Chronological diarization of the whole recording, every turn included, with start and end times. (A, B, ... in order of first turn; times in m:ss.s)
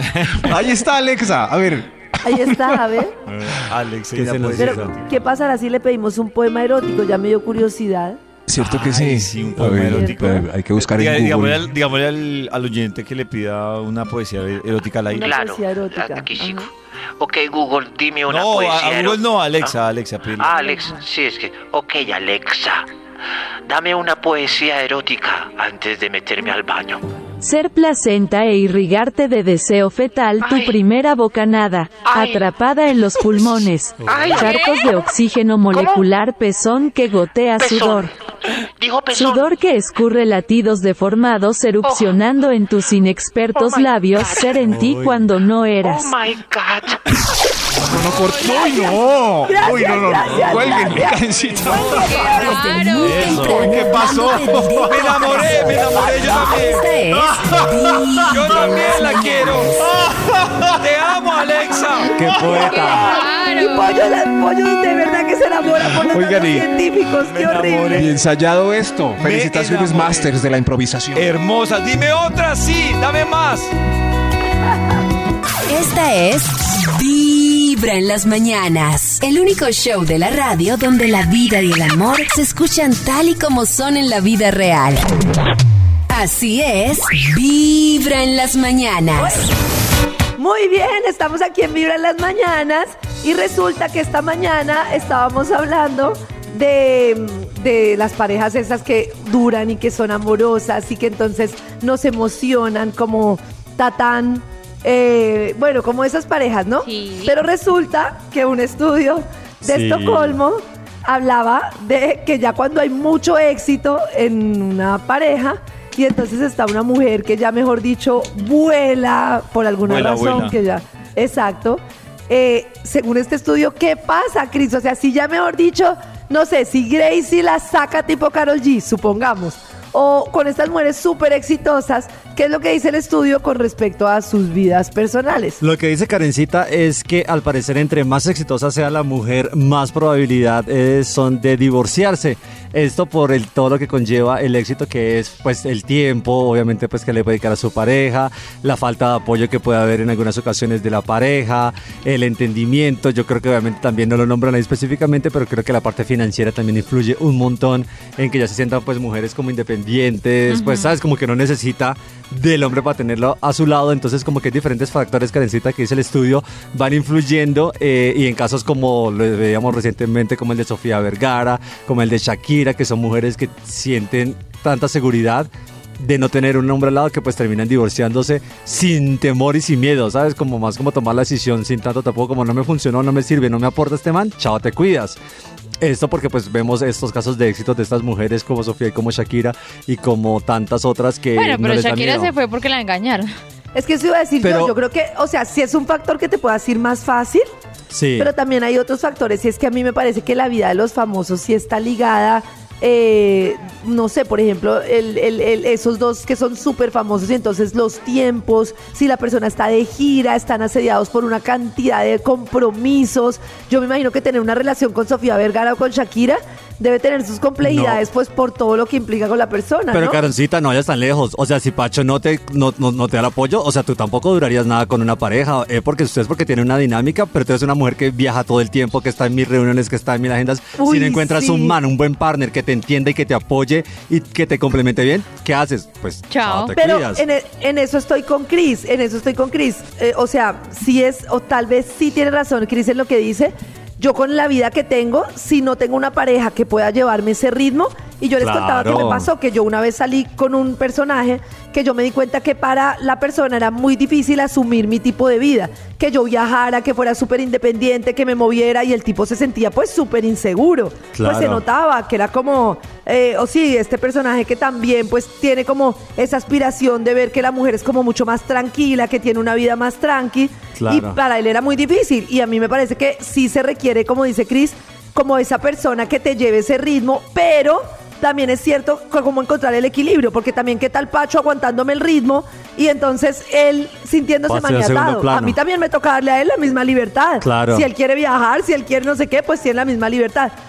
0:00.2-0:03.0 A
0:02.2-0:03.2 B
0:03.3-0:03.6 C
0:03.6-0:05.2 D
0:04.1-0:04.9 C
0:04.6-0:08.2 B
0:08.4-0:11.7 A
0:08.6-0:15.4 D
0:09.8-0:10.2 B
0:15.1-0:16.7 B
0:15.1-0:19.7 E
0:18.3-0:20.6 D
0:20.4-0:22.9 E
0:23.7-0:27.0 E
0:27.4-0:38.1 F
0:30.4-0:30.8 E
0:32.0-0:32.5 E
0:33.2-0:33.4 E
0:34.0-0:34.4 C
0:34.0-0:35.1 E
0:34.3-0:34.8 G
0:35.7-0:36.1 E
0:37.6-0:39.5 E
0:39.1-0:46.1 F
0:41.8-0:42.2 E
0:43.5-0:44.6 E
0:44.6-0:45.2 C
0:45.8-0:47.0 E
0:47.8-0:52.3 A
0:48.1-0:49.1 G
0:49.4-0:52.8 B
0:50.3-0:51.0 C
0:51.6-0:53.7 G
0:52.4-0:59.9 H
0:53.0-0:53.7 C
0:53.4-0:55.7 A
0:54.8-0:56.9 D
0:56.0-0:56.3 B
0:57.1-0:58.7 A
0:58.3-1:02.6 D
1:00.0-1:00.7 A
1:02.1-1:03.1 C
1:02.4-1:08.1 B
1:02.5-1:04.0 G
1:06.1-1:06.7 A
1:07.2-1:08.1 D
1:07.9-1:11.3 A
1:09.2-1:10.3 D
1:11.1-1:13.7 D
1:15.7-1:25.1 H
1:26.1-1:29.5 H
1:29.2-1:29.5 B
1:30.4-2:15.6 B
1:46.8-1:47.3 G
1:49.6-1:50.4 C
1:59.8-2:00.6 D
2:15.6-3:05.2 C
2:40.5-2:41.0 G
3:05.8-3:12.3 C
3:11.3-3:13.3 G
3:13.7-3:17.5 B
3:14.4-3:14.7 C
3:17.9-3:18.3 C
3:18.2-3:40.2 B
3:37.6-3:38.0 C
3:39.9-3:57.2 C
3:50.8-3:51.8 B
3:56.3-3:56.7 G
3:56.8-4:50.5 B
4:08.4-4:09.3 C
4:21.1-4:21.6 C
4:30.7-4:31.2 C
4:44.5-4:45.6 C
4:47.4-4:47.9 C